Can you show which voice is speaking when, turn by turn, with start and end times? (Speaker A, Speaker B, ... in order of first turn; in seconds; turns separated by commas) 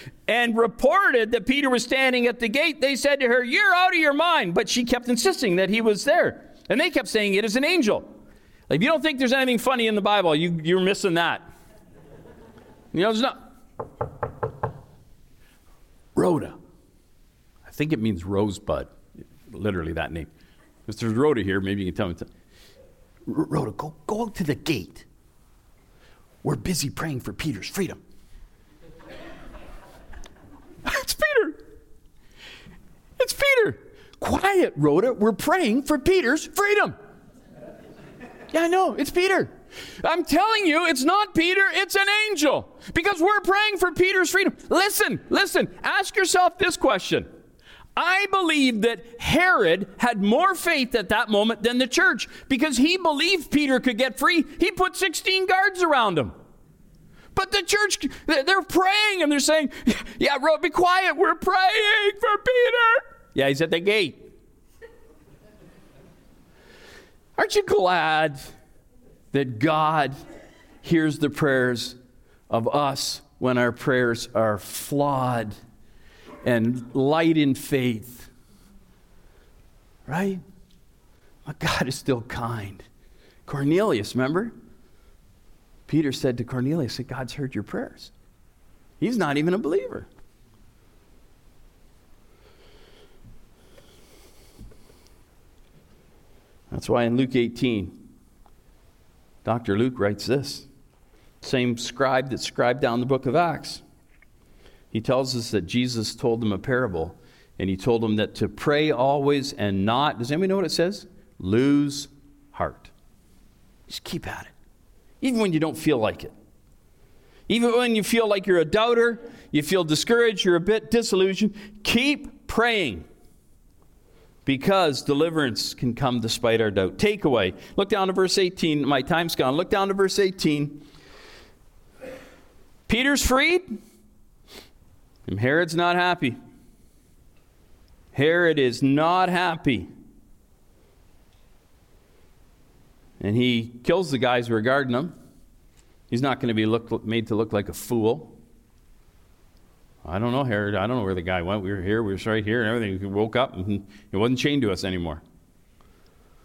Speaker A: 0.3-8.1, Speaker A: 8.7-11.4, Speaker A: 12.9-13.4, Speaker A: 16.1-16.6, Speaker A: 17.6-20.3, Speaker A: 20.9-22.3, Speaker A: 23.3-25.1, Speaker A: 26.4-28.0, Speaker A: 30.8-31.6, Speaker A: 33.2-36.9, Speaker A: 38.5-47.3, Speaker A: 48.0-56.3, Speaker A: 57.3-64.2, Speaker A: 67.4-68.4, Speaker A: 69.3-70.2, Speaker A: 70.8-72.0, Speaker A: 72.5-75.5, Speaker A: 76.4-78.3, Speaker A: 80.1-80.4, Speaker A: 81.4-82.9, Speaker A: 83.5-84.5, Speaker A: 85.9-88.1, Speaker A: 89.0-90.1, Speaker A: 96.7-97.9, Speaker A: 99.4-100.7, Speaker A: 101.4-103.8, Speaker A: 104.9-112.9, Speaker A: 113.9-114.5, Speaker A: 115.2-116.3, Speaker A: 117.5-123.0, Speaker A: 124.5-130.8, Speaker A: 132.9-133.7, Speaker A: 135.3-136.4, Speaker A: 138.1-139.9, Speaker A: 143.2-145.1, Speaker A: 146.1-148.4, Speaker A: 150.0-155.2